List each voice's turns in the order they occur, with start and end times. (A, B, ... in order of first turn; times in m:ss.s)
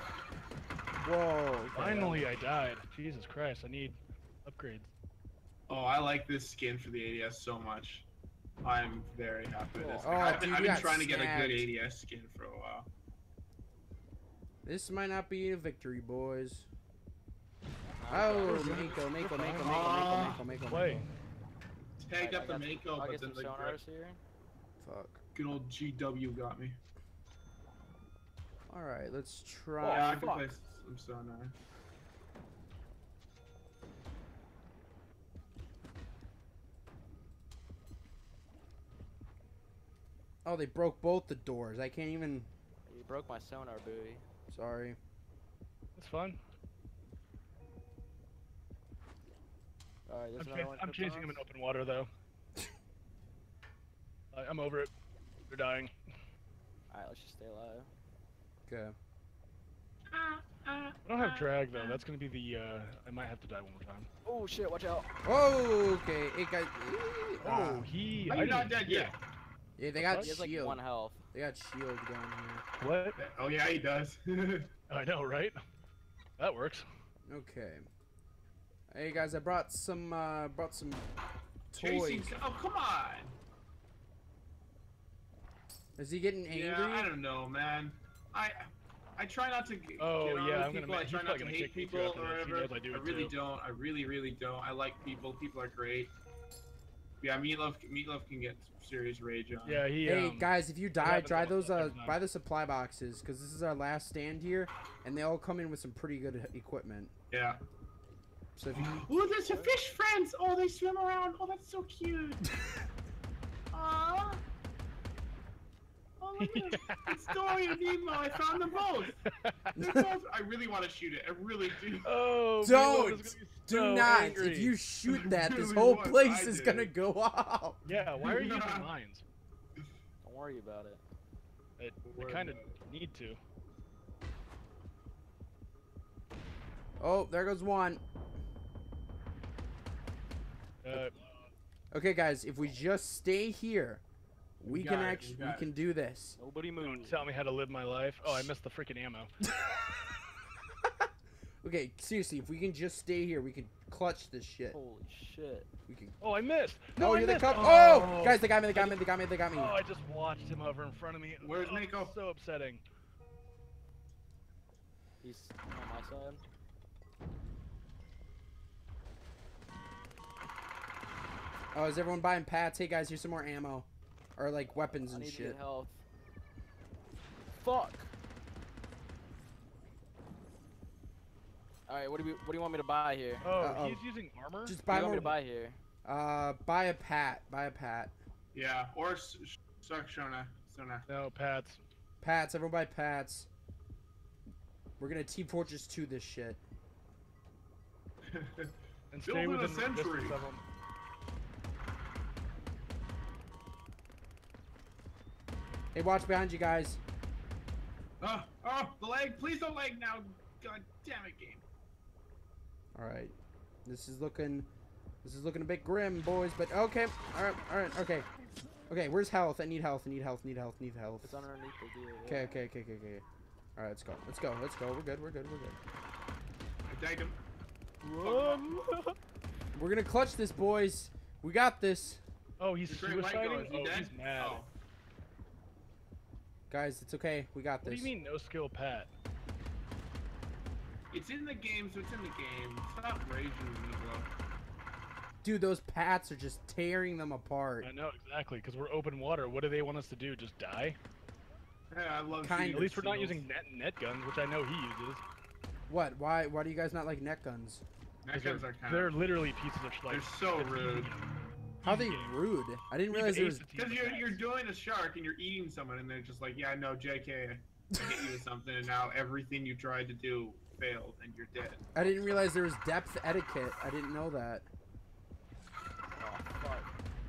0:01.0-0:02.3 A
0:01.7-0:04.9 B
0:05.7-0:08.1 C
0:08.6-0:12.9 C
0:09.7-0:10.4 D
0:10.0-0:11.7 A
0:14.6-0:16.7 A
0:17.9-0:18.9 D
0:18.1-0:21.0 A
0:18.4-0:21.1 B
0:19.6-0:20.4 C
0:22.0-0:23.8 C
0:22.1-0:24.2 D
0:24.8-0:25.2 A
0:25.3-0:26.8 C
0:28.7-0:30.2 A
0:29.8-0:30.5 B
0:29.9-0:31.5 C
0:40.4-0:42.5 A
0:42.8-0:44.2 D
0:44.5-0:45.0 A
0:46.0-0:46.4 B
0:50.1-0:51.4 D
0:50.4-0:52.1 B
0:54.3-0:54.9 B
0:55.5-0:55.9 B
0:56.9-0:57.9 D
0:58.7-0:59.0 A
1:00.1-1:02.0 C
1:01.0-1:04.1 B
1:04.2-1:05.1 D
1:05.2-1:07.9 A
1:07.4-1:09.1 B
1:08.2-1:09.1 C
1:09.8-1:10.8 A
1:10.0-1:10.4 B
1:10.2-1:11.2 D
1:11.3-1:12.6 A
1:12.8-1:13.2 B
1:13.2-1:14.7 C
1:14.9-1:15.6 B
1:16.4-1:16.9 B
1:17.3-1:17.8 A
1:18.9-1:21.1 A
1:21.7-1:22.3 A
1:21.7-1:23.4 C
1:26.0-1:27.1 A
1:26.5-1:36.1 C
1:30.0-1:33.4 B
1:37.2-1:39.9 C
1:39.6-1:42.2 B
1:40.0-1:47.1 A
1:47.3-1:47.6 C
1:48.6-1:49.0 A
1:48.7-1:52.4 C
1:49.5-1:49.7 D
1:53.7-1:54.4 C
1:56.2-1:59.2 C
1:56.4-1:57.3 B
1:59.4-1:59.7 B
1:59.8-2:02.1 C
1:59.8-2:00.1 A
2:02.0-2:04.8 B
2:02.6-2:07.8 A
2:05.0-2:06.9 C
2:07.8-2:09.2 B
2:07.9-2:08.9 C
2:10.2-2:11.0 D
2:11.8-2:13.4 B
2:12.0-2:12.8 C
2:17.0-2:18.0 A
2:20.8-2:21.2 B
2:21.9-2:24.0 A
2:24.6-2:26.4 A
2:24.6-2:25.7 C
2:26.4-2:27.2 D
2:26.8-2:29.3 B
2:28.2-2:28.5 A
2:31.6-2:34.8 A
2:34.7-2:35.7 D
2:35.9-2:36.2 A
2:36.2-2:39.0 B
2:37.0-2:39.8 A
2:39.5-2:42.8 B
2:41.4-2:42.1 C
2:45.2-2:46.4 D
2:51.7-2:55.6 A
2:55.0-2:56.0 D
2:57.6-2:58.1 D
3:01.9-3:03.5 D
3:03.4-3:05.3 B
3:03.6-3:04.0 A
3:04.6-3:05.4 A
3:04.9-3:05.8 D
3:06.0-3:08.2 A
3:08.5-3:11.0 C
3:11.1-3:11.8 B
3:12.2-3:13.5 A
3:15.0-3:16.6 A
3:18.3-3:20.4 C
3:19.1-3:20.6 B
3:25.9-3:27.0 A
3:28.2-3:31.6 C
3:32.9-3:33.3 A
3:33.8-3:34.7 A
3:35.2-3:38.3 A
3:38.9-3:41.4 A
3:41.2-3:42.6 D
3:42.2-3:43.2 A
3:43.8-3:45.8 A
3:46.9-3:47.4 C
3:48.0-3:49.1 B
3:48.2-3:48.6 C
3:49.7-3:52.2 A
3:52.6-3:54.6 B
3:52.9-3:54.7 C
3:56.7-3:58.1 A
3:57.8-3:59.1 B
4:01.1-4:04.3 C
4:05.4-4:07.9 A
4:07.8-4:11.0 B
4:11.9-4:13.4 C
4:12.4-4:13.0 A
4:12.6-4:15.2 B
4:15.9-4:17.8 A
4:18.2-4:19.2 C
4:18.3-4:21.2 B
4:20.1-4:21.1 C
4:21.8-4:22.4 B
4:21.8-4:23.7 A
4:23.1-4:24.4 B
4:23.7-4:31.9 C
4:31.9-4:34.7 A
4:36.1-4:36.9 D